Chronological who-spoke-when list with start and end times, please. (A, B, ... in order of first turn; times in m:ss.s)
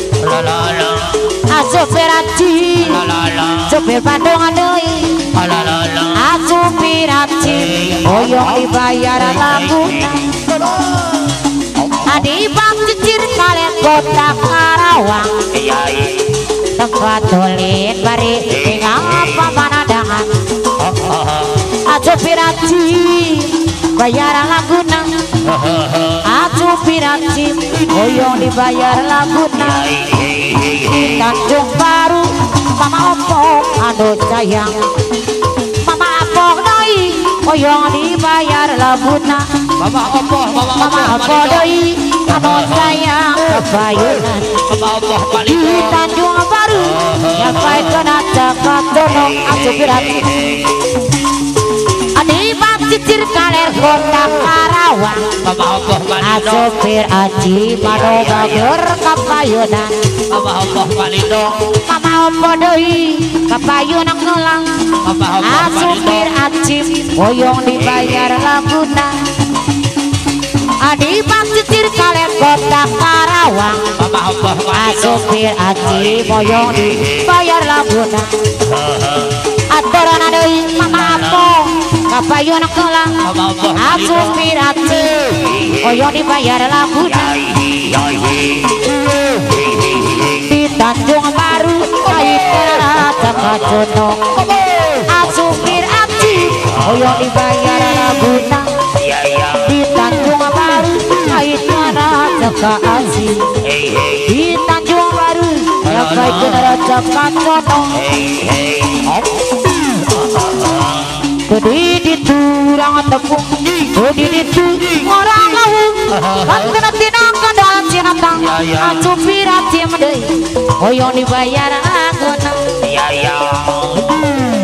0:00.2-0:01.2 A
0:01.4-0:05.3 B
0:02.9-0:03.7 A
0:05.3-0:06.1 A
0:06.1-0:10.2 B
0:12.0-0:15.5 B
0:15.6-0:16.2 A
0:16.7-0:20.4 B
0:21.1-0:21.5 A
0:21.7-0:25.3 B
0:26.1-0:34.9 B
0:35.8-0:39.7 B
0:39.8-0:41.7 A
0:40.7-0:44.6 B
0:42.4-0:42.9 A
0:44.6-0:46.0 A
0:45.4-0:50.6 B
0:52.1-0:55.4 B
0:55.4-0:56.7 A
0:56.2-1:00.1 B
0:58.2-0:58.4 A
1:00.3-1:01.7 A
1:01.7-1:09.2 B
1:05.0-1:06.3 A
1:10.8-1:13.9 B
1:14.0-1:15.3 A
1:14.7-1:18.3 B
1:18.9-1:19.3 A
1:19.5-1:23.2 B
1:23.2-1:24.4 A
1:23.7-1:27.7 B
1:27.7-1:28.4 A
1:30.2-1:34.3 B
1:34.9-1:38.8 B
1:39.0-1:39.6 A
1:39.5-1:43.5 B
1:43.7-1:44.1 A
1:44.1-1:48.1 B
1:46.2-1:46.6 A
1:48.1-1:49.1 A
1:51.3-2:02.7 B
2:02.8-2:04.2 A